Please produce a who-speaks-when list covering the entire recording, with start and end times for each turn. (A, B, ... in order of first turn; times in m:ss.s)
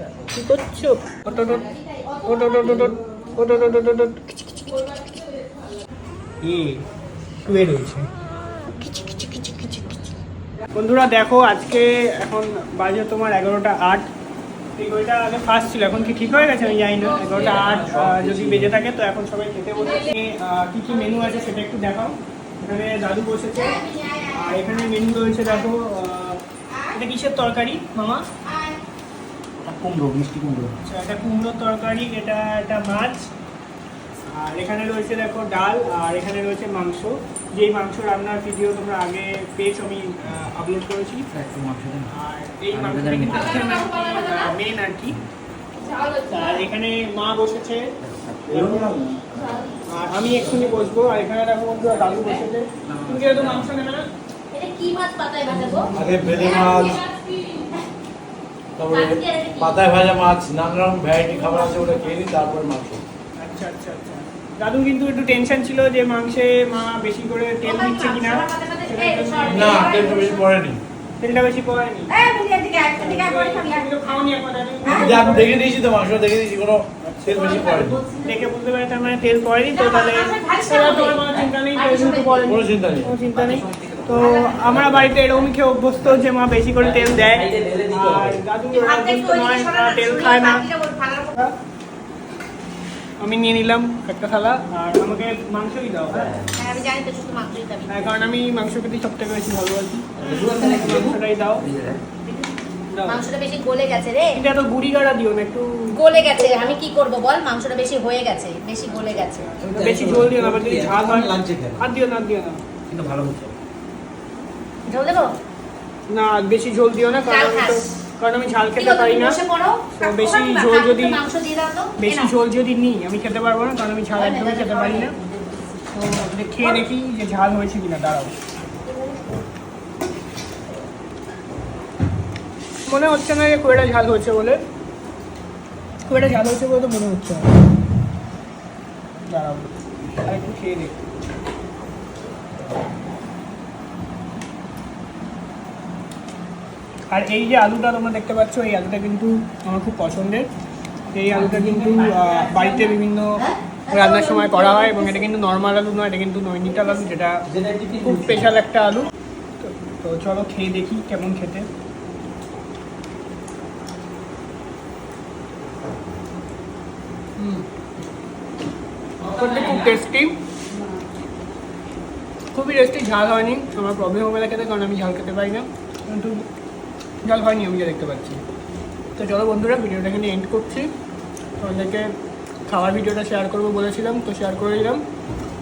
0:00.3-0:01.7 A
0:01.4-0:02.9 B
0:02.2-0:04.6 A
0:06.4-0:06.8 A
0:07.4-0:08.1 A
0:08.7-0:10.1 A
0:10.7-0:14.1 A
0:14.8-0:26.4 A
0:17.2-0:18.7 C
0:23.6-0:24.8 B
0:26.9-0:28.2 A
0:28.4-0:28.8 B
0:29.6-0:30.7 C
0:30.8-0:33.3 A
0:34.3-0:41.3 A
0:41.3-0:42.1 C
0:42.0-0:45.2 A
0:42.7-0:43.7 C
0:43.3-0:44.5 B
0:45.8-0:46.3 B
0:46.2-0:47.9 A
0:48.2-0:49.1 C
0:48.5-0:49.0 A
0:49.9-0:54.1 A
0:52.9-0:53.7 C
0:54.5-0:57.8 B
0:55.8-0:56.1 C
0:55.9-0:57.0 D
0:58.8-1:03.0 D
0:58.9-0:59.8 B
1:01.4-1:02.3 B
1:03.4-1:10.0 A
1:07.6-1:10.4 B
1:09.4-1:10.8 D
1:11.2-1:12.2 A
1:12.1-1:13.8 B
1:12.9-1:15.5 A
1:14.9-1:18.0 D
1:17.0-1:17.6 A
1:17.4-1:18.3 B
1:18.2-1:30.7 A
1:19.7-1:22.6 B
1:22.5-1:23.2 D
1:23.4-1:25.0 C
1:24.2-1:24.5 B
1:26.8-1:28.4 C
1:28.7-1:31.4 B
1:33.2-1:36.4 A
1:36.5-1:38.1 B
1:37.9-1:41.6 A
1:40.2-1:42.0 C
1:42.9-1:43.2 A
1:43.1-1:44.4 B
1:44.3-1:46.8 A
1:45.9-1:49.5 B
1:48.9-1:52.6 A
1:49.6-1:51.8 C
1:52.9-1:53.5 C
1:54.8-1:55.3 B
1:56.1-1:59.4 A
1:57.2-1:57.9 B
1:58.8-2:02.3 B
1:59.9-2:01.2 A
2:02.0-2:05.1 A
2:04.1-2:05.8 B
2:05.9-2:08.3 A
2:12.9-2:14.6 A
2:16.0-2:17.4 A
2:19.3-2:19.7 A
2:20.2-2:20.9 A
2:27.1-2:30.5 A
2:31.1-2:37.4 A
2:31.3-2:33.0 C
2:33.4-2:35.2 B
2:37.5-2:38.4 C
2:38.0-2:39.1 A
2:39.6-2:41.7 A
2:47.4-2:47.6 A
2:49.2-2:50.4 A
2:52.5-2:56.4 A
2:57.2-2:58.4 A
2:59.2-3:00.9 A
3:01.6-3:02.1 A
3:02.7-3:05.0 A